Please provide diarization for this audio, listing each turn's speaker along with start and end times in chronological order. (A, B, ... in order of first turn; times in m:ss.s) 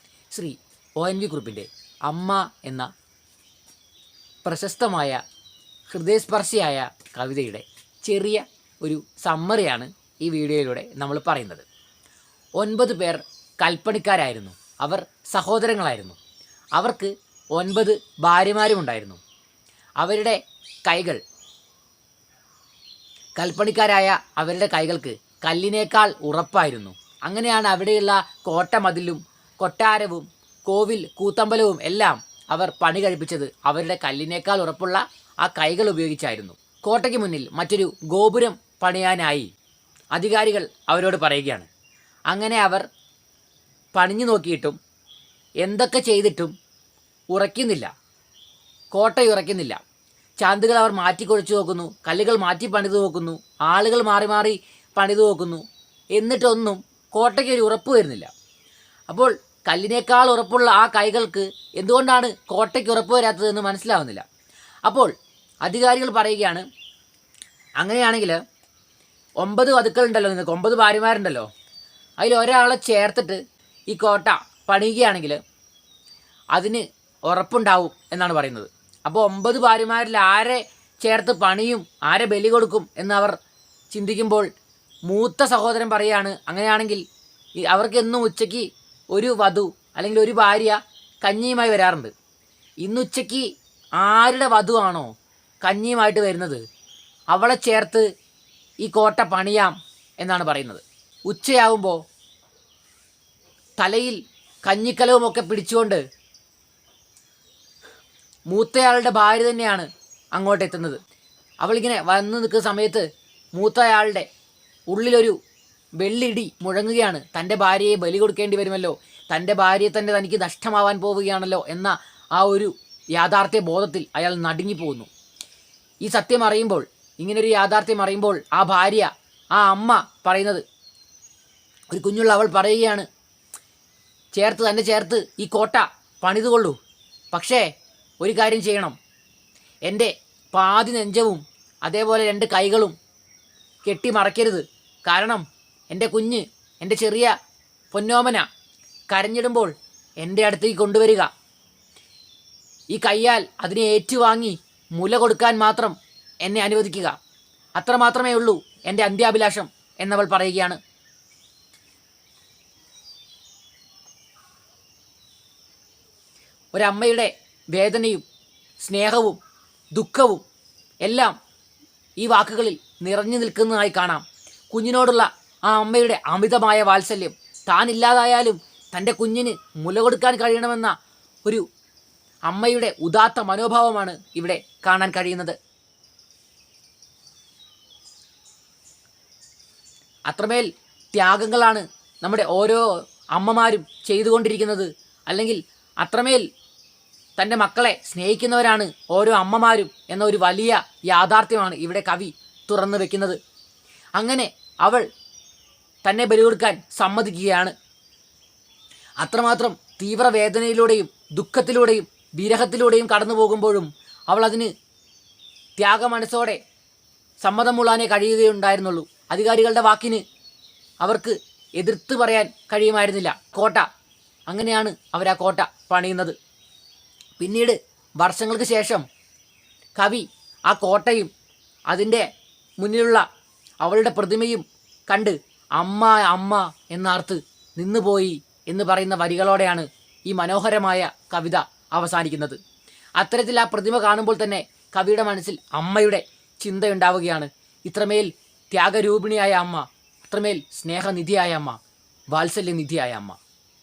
0:00.3-0:02.9 A
0:04.4-0:05.2 A
0:05.9-0:11.6 A
0:12.6-0:16.2 A
0:16.8-0:19.2 A
0:20.0-0:21.2 A
0:23.4-0:39.5 A
0:40.1-0:41.7 A
0:42.3-0:42.8 A
0:43.9-0:44.8 A
0:45.6-0:46.5 A
0:47.3-0:47.9 A
0:48.9-0:49.8 A
0:50.4-0:55.6 A
0:56.1-0:58.3 A
0:59.1-1:04.2 A
1:04.8-1:05.1 A
1:05.6-1:06.6 A
1:07.8-1:08.4 A
1:09.4-1:11.5 A
1:12.2-1:15.4 A
1:16.6-1:23.4 A
1:23.9-1:24.5 A
1:25.1-1:27.0 A
1:27.6-1:32.1 A
1:32.8-1:35.1 A
1:35.6-1:36.6 A
1:37.3-1:38.0 A
1:38.8-1:42.0 A
1:43.8-1:46.0 A
1:48.5-1:51.0 A
1:51.6-1:54.3 A
1:54.9-1:55.4 A
1:56.0-2:05.1 A
2:06.0-2:10.6 A
2:11.9-2:13.1 A
2:14.3-2:16.8 A
2:17.3-2:17.6 A
2:18.2-2:19.0 A
2:19.9-2:22.9 A
2:23.8-2:27.3 A
2:27.9-2:28.4 A
2:29.1-2:31.3 A
2:32.9-2:37.2 A
2:37.8-2:40.8 A
2:46.7-2:48.2 A
2:48.8-2:49.4 A
2:49.9-2:50.4 A
2:51.0-2:51.3 A
2:52.2-3:01.6 A
3:02.5-3:05.5 A
3:10.3-3:16.4 A
3:17.4-3:23.4 A
3:24.2-3:25.0 A
3:26.0-3:27.7 A
3:29.2-3:34.7 A
3:35.8-3:36.6 A
3:37.4-3:40.2 A
3:41.0-3:43.9 A
3:44.5-3:46.3 A
3:47.4-3:49.0 A
3:50.0-3:51.3 A
3:51.9-3:52.2 A
3:52.8-3:53.2 A
3:53.8-4:02.6 A
4:03.2-4:11.8 A
4:12.3-4:13.4 A